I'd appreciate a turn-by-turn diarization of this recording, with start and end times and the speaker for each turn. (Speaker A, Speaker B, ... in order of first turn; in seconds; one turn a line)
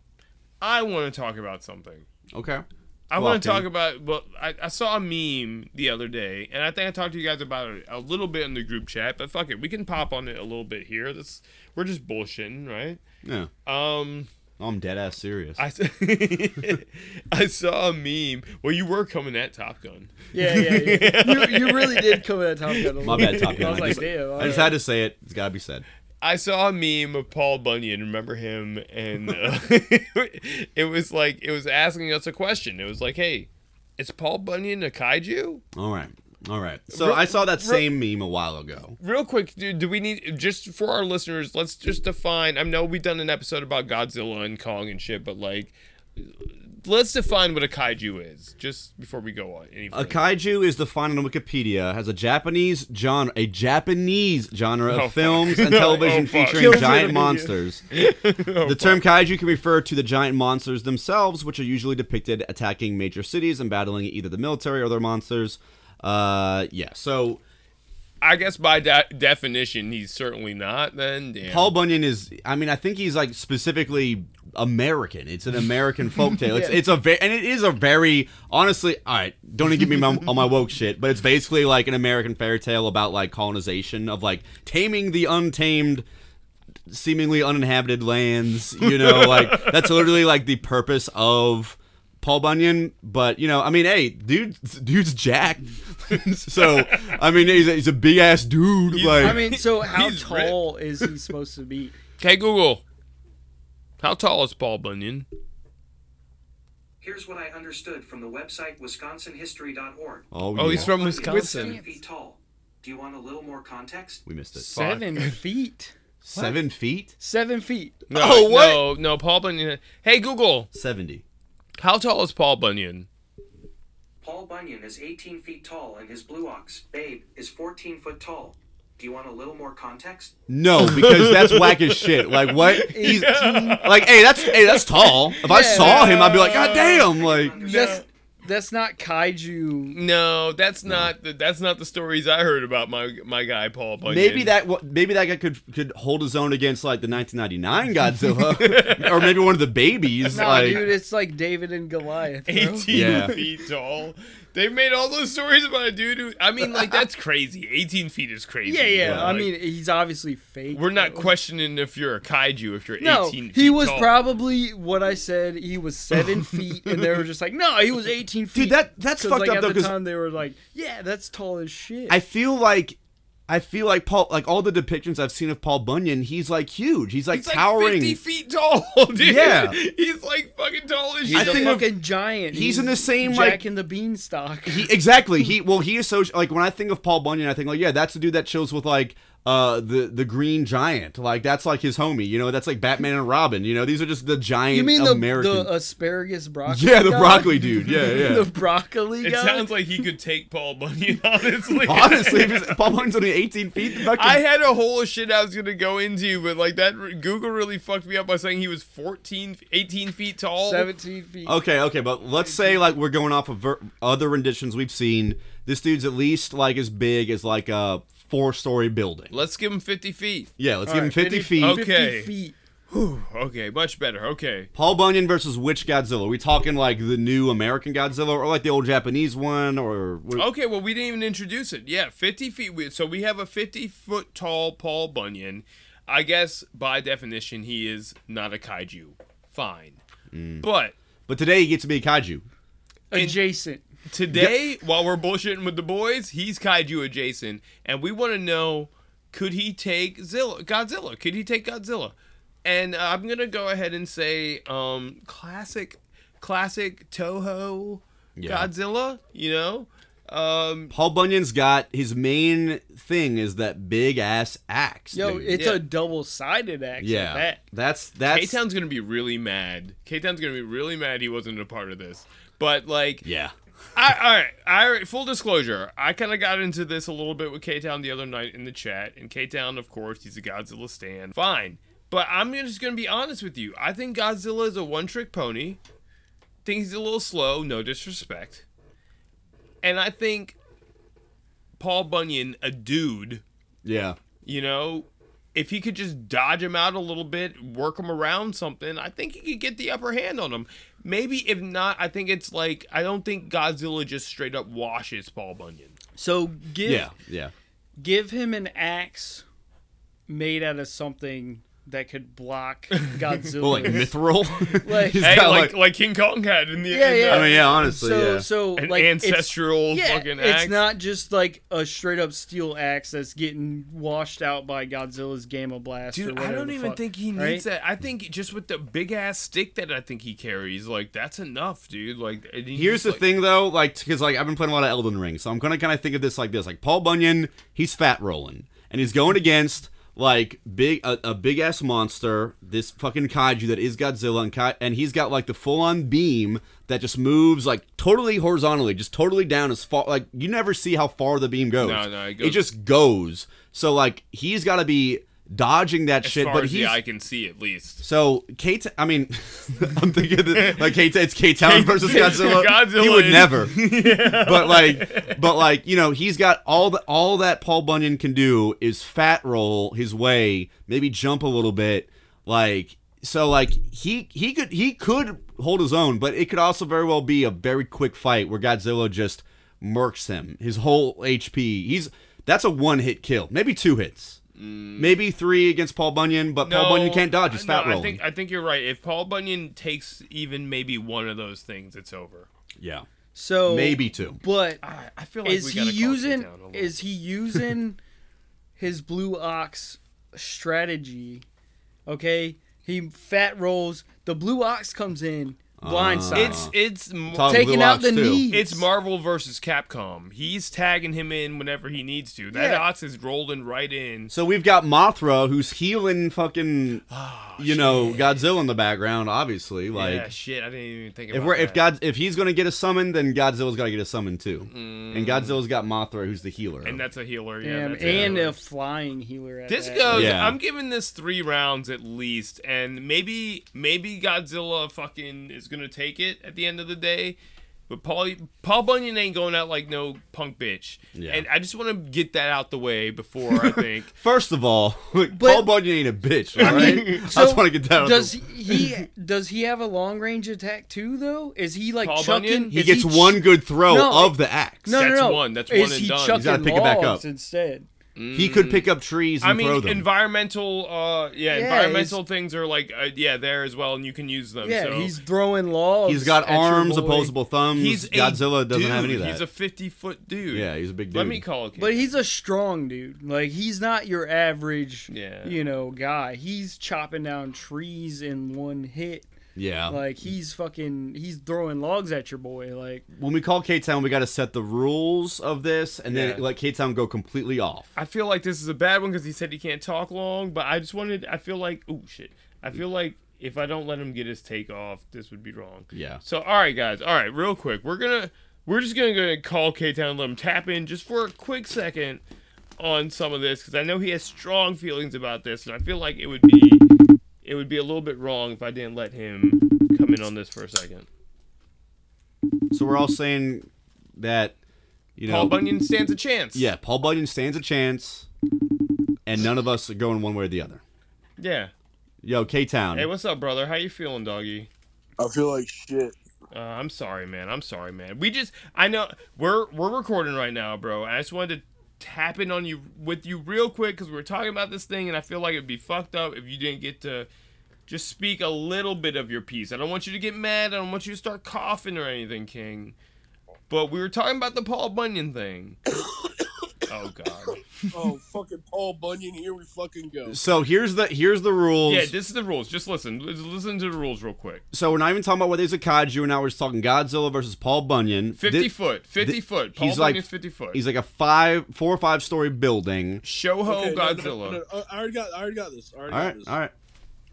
Speaker A: 0.6-2.0
Speaker B: 2.3-3.6
Speaker A: 3.1-13.0
Speaker B: 13.2-13.5
Speaker A: 13.7-14.3
Speaker B: 14.6-15.6
Speaker A: 15.6-24.7
Speaker C: 20.3-24.7
Speaker B: 23.0-25.9
Speaker A: 26.2-35.6
Speaker B: 35.7-39.0
Speaker A: 36.9-37.9
Speaker A: 39.0-50.3
Speaker B: 49.9-57.9
Speaker A: 54.9-57.0
Speaker C: 56.1-57.5
Speaker A: 57.9-59.1
Speaker B: 58.6-67.4
Speaker A: 68.2-71.7
Speaker B: 71.5-86.0
Speaker B: 86.9-99.4
Speaker A: 88.8-90.0
Speaker A: 96.6-97.2
Speaker A: 98.9-100.6
Speaker C: 99.2-101.9
Speaker A: 102.2-102.8
Speaker A: 104.0-105.3
Speaker D: 107.0-114.2
Speaker B: 110.3-110.9
Speaker A: 110.5-111.8
Speaker C: 111.1-112.0
Speaker B: 114.2-114.7
Speaker C: 114.5-116.6
Speaker A: 114.7-115.4
Speaker B: 116.2-117.1
Speaker C: 117.2-118.0
Speaker A: 118.1-120.7
Speaker B: 118.1-118.8
Speaker B: 120.7-121.2
Speaker A: 121.8-123.1
Speaker D: 124.2-130.3
Speaker B: 130.5-137.6
Speaker A: 130.8-138.0
Speaker C: 132.8-133.8
Speaker C: 135.4-136.6
Speaker D: 136.7-138.0
Speaker C: 137.6-140.0
Speaker A: 139.9-144.5
Speaker B: 140.8-141.1
Speaker B: 144.0-150.9
Speaker A: 148.4-149.4
Speaker A: 150.2-150.9
Speaker C: 150.3-153.4
Speaker A: 152.5-159.5
Speaker B: 152.9-153.3
Speaker C: 158.6-161.3
Speaker B: 159.0-159.3
Speaker A: 160.7-164.2
Speaker C: 163.0-172.2
Speaker B: 168.5-169.9
Speaker B: 172.1-178.2
Speaker A: 177.3-181.8
Speaker B: 179.2-179.8
Speaker B: 181.2-181.9
Speaker C: 181.3-184.9
Speaker B: 182.5-183.6
Speaker B: 184.7-195.7
Speaker C: 194.7-199.7
Speaker B: 196.7-198.5
Speaker A: 199.2-202.8
Speaker B: 201.8-204.4
Speaker A: 204.0-210.9
Speaker C: 210.6-211.6
Speaker B: 211.4-219.3
Speaker A: 219.3-220.5
Speaker B: 220.6-221.8
Speaker C: 220.8-222.6
Speaker A: 221.6-222.3
Speaker A: 222.9-224.7
Speaker B: 224.7-230.5
Speaker A: 230.3-240.0
Speaker B: 240.3-240.7
Speaker A: 240.6-240.9
Speaker B: 241.3-242.4
Speaker C: 243.1-243.8
Speaker A: 243.1-243.4
Speaker A: 244.1-260.9
Speaker B: 244.3-244.6
Speaker B: 258.4-258.7
Speaker B: 260.9-265.6
Speaker C: 265.1-267.6
Speaker A: 265.5-265.8
Speaker B: 267.0-268.6
Speaker A: 268.3-273.2
Speaker B: 273.2-273.5
Speaker A: 273.9-285.8
Speaker A: 286.6-288.6
Speaker A: 289.8-290.6
Speaker A: 291.8-293.4
Speaker B: 293.8-294.2
Speaker A: 294.4-306.0
Speaker C: 306.2-307.1
Speaker B: 306.8-307.5
Speaker C: 308.0-309.4
Speaker C: 310.3-314.1
Speaker B: 313.6-315.8
Speaker A: 313.8-314.0
Speaker C: 314.8-315.3
Speaker A: 315.2-317.8
Speaker C: 316.9-327.6
Speaker B: 317.3-318.5
Speaker A: 318.8-320.9
Speaker A: 326.1-333.2
Speaker B: 332.7-357.0
Speaker A: 351.8-352.6
Speaker A: 356.2-358.0
Speaker B: 358.0-384.4
Speaker A: 360.5-361.0
Speaker A: 361.6-365.4
Speaker A: 384.6-385.2
Speaker B: 385.0-388.2
Speaker A: 386.6-392.5
Speaker B: 392.8-393.1
Speaker C: 393.3-394.8
Speaker B: 393.6-394.4
Speaker A: 394.8-397.0
Speaker C: 395.4-398.0
Speaker C: 398.8-401.4
Speaker C: 402.1-406.6
Speaker B: 405.8-406.7
Speaker A: 406.3-407.8
Speaker B: 407.3-408.4
Speaker C: 407.5-408.9
Speaker A: 408.5-414.3
Speaker C: 412.5-412.8
Speaker B: 414.3-417.0
Speaker A: 417.1-418.4
Speaker B: 417.6-420.3
Speaker A: 419.9-421.9
Speaker B: 421.3-427.0
Speaker A: 424.7-425.6
Speaker A: 426.8-428.6
Speaker C: 427.6-430.3
Speaker B: 428.0-428.4
Speaker A: 429.7-437.4
Speaker B: 430.1-430.6
Speaker A: 437.9-444.1
Speaker B: 441.1-441.4
Speaker B: 444.2-448.4
Speaker C: 445.3-445.7
Speaker A: 446.6-447.2
Speaker C: 446.6-457.9
Speaker A: 452.0-452.7
Speaker B: 452.7-454.9
Speaker A: 454.9-456.5
Speaker B: 456.3-457.2
Speaker A: 458.1-458.9
Speaker B: 458.3-460.1
Speaker A: 459.4-465.1
Speaker C: 461.5-462.2
Speaker C: 464.6-467.3
Speaker B: 466.1-469.4
Speaker A: 467.7-472.1
Speaker B: 470.5-471.4
Speaker C: 471.8-479.3
Speaker A: 475.1-475.6
Speaker B: 479.6-480.1
Speaker C: 479.9-483.0
Speaker B: 483.1-487.9
Speaker A: 486.1-486.4
Speaker A: 487.9-502.2
Speaker B: 495.9-496.2
Speaker A: 502.8-506.9
Speaker A: 507.4-511.1
Speaker B: 512.7-514.5
Speaker B: 515.2-515.5
Speaker A: 515.2-516.7
Speaker B: 516.5-518.3
Speaker B: 519.2-520.8
Speaker A: 521.4-521.7
Speaker B: 522.2-523.1
Speaker A: 522.9-524.7
Speaker E: 525.2-526.2
Speaker A: 526.5-537.3
Speaker A: 537.9-542.9
Speaker A: 543.7-545.8
Speaker A: 546.9-547.6
Speaker E: 547.9-550.4
Speaker B: 550.2-552.1
Speaker A: 551.9-554.6
Speaker B: 554.7-563.2
Speaker A: 558.4-560.8
Speaker A: 563.2-564.6
Speaker E: 563.6-566.6
Speaker B: 566.1-566.7